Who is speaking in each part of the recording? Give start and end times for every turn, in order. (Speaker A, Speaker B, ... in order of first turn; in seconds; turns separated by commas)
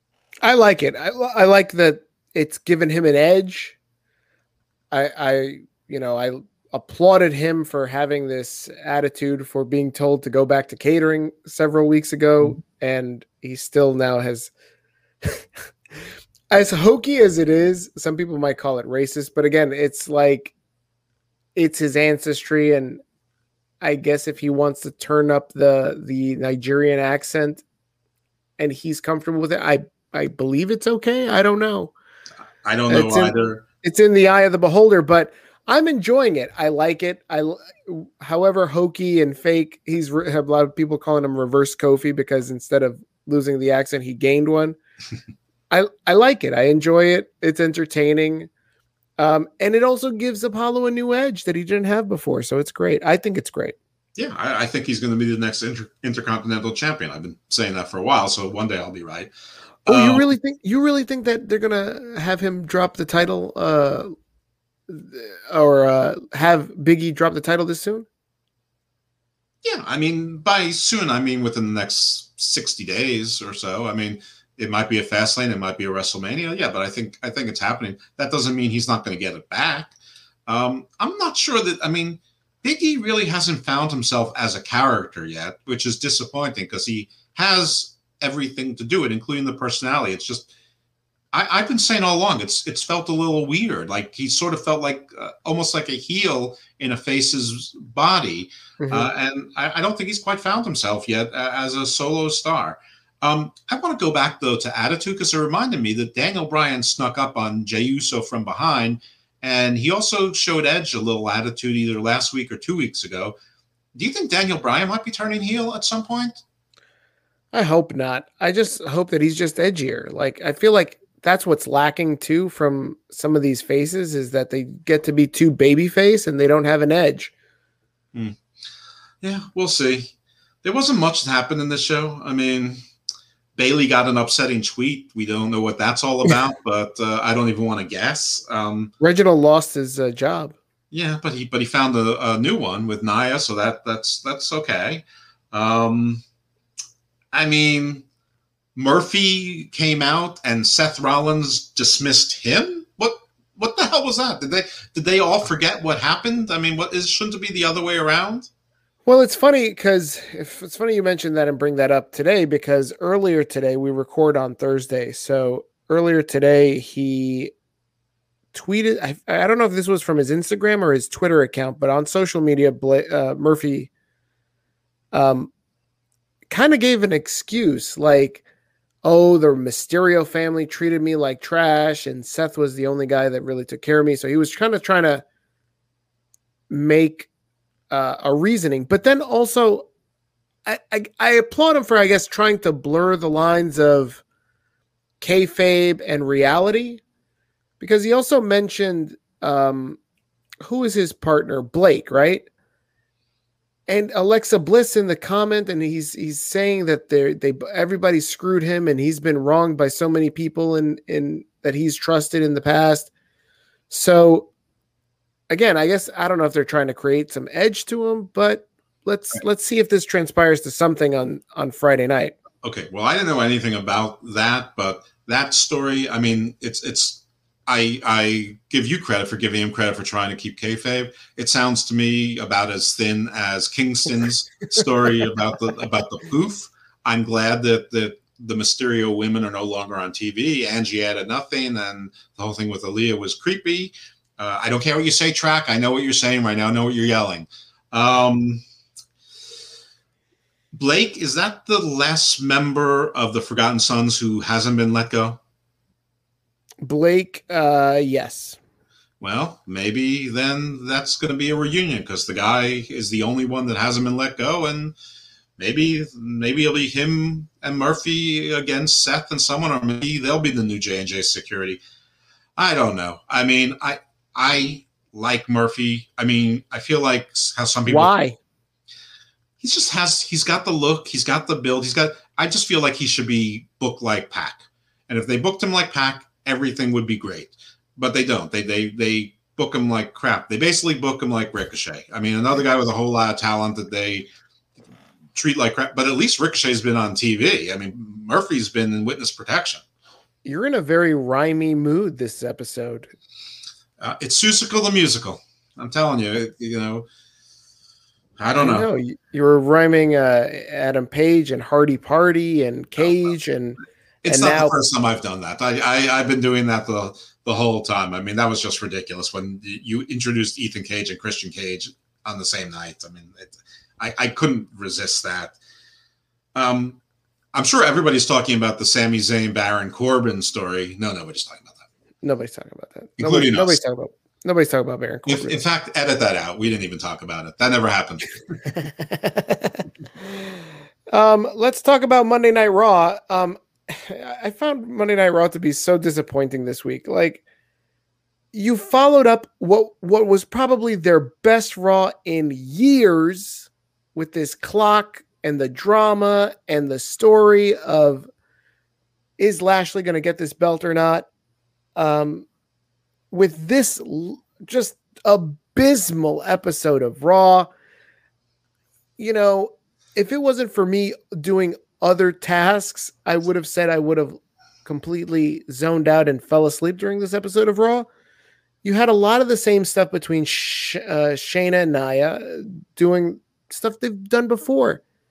Speaker A: 0.4-3.8, Speaker A: 4.9-14.5, Speaker A: 16.5-20.5, Speaker A: 21.6-23.0, Speaker A: 23.8-27.6, Speaker A: 28.6-31.9, Speaker B: 32.6-33.6, Speaker A: 32.9-44.8, Speaker A: 45.7-48.5, Speaker A: 49.2-53.8, Speaker B: 54.2-59.3, Speaker B: 59.9-60.3, Speaker A: 59.9-64.1, Speaker A: 64.9-68.1, Speaker B: 69.6-80.0, Speaker B: 80.5-90.5, Speaker B: 91.3-113.3, Speaker A: 98.8-99.1, Speaker B: 114.0-116.4, Speaker A: 117.5-127.3, Speaker B: 129.2-130.1, Speaker B: 130.6-132.8, Speaker B: 133.6-138.9, Speaker A: 139.0-140.6, Speaker B: 140.9-146.2, Speaker B: 147.3-148.1, Speaker B: 148.8-158.5, Speaker A: 159.1-167.5, Speaker A: 168.5-173.9, Speaker A: 175.1-175.5, Speaker A: 176.5-178.4, Speaker A: 179.0-185.2, Speaker A: 186.7-187.3, Speaker A: 187.9-189.9, Speaker A: 190.7-194.2, Speaker A: 195.2-197.0, Speaker A: 197.8-200.0, Speaker A: 200.6-202.5, Speaker A: 203.9-213.1, Speaker A: 213.9-214.5, Speaker A: 215.5-222.4, Speaker B: 222.6-248.6, Speaker B: 250.7-255.4, Speaker A: 256.8-258.6, Speaker B: 259.2-264.9, Speaker B: 265.6-271.8, Speaker B: 272.6-278.1, Speaker A: 277.9-278.4, Speaker B: 279.6-294.3, Speaker B: 295.4-299.8, Speaker A: 300.4-303.1, Speaker B: 304.0-307.1, Speaker B: 308.4-308.9, Speaker A: 308.6-314.8, Speaker B: 314.2-325.6, Speaker B: 326.6-327.0, Speaker B: 327.5-331.8, Speaker A: 332.2-335.6, Speaker B: 333.2-333.8, Speaker B: 335.3-338.4, Speaker A: 339.0-339.9, Speaker A: 341.1-347.4, Speaker A: 348.5-358.3, Speaker A: 359.4-361.3, Speaker A: 362.0-362.5, Speaker A: 363.3-367.7, Speaker A: 369.2-378.1, Speaker A: 378.8-385.0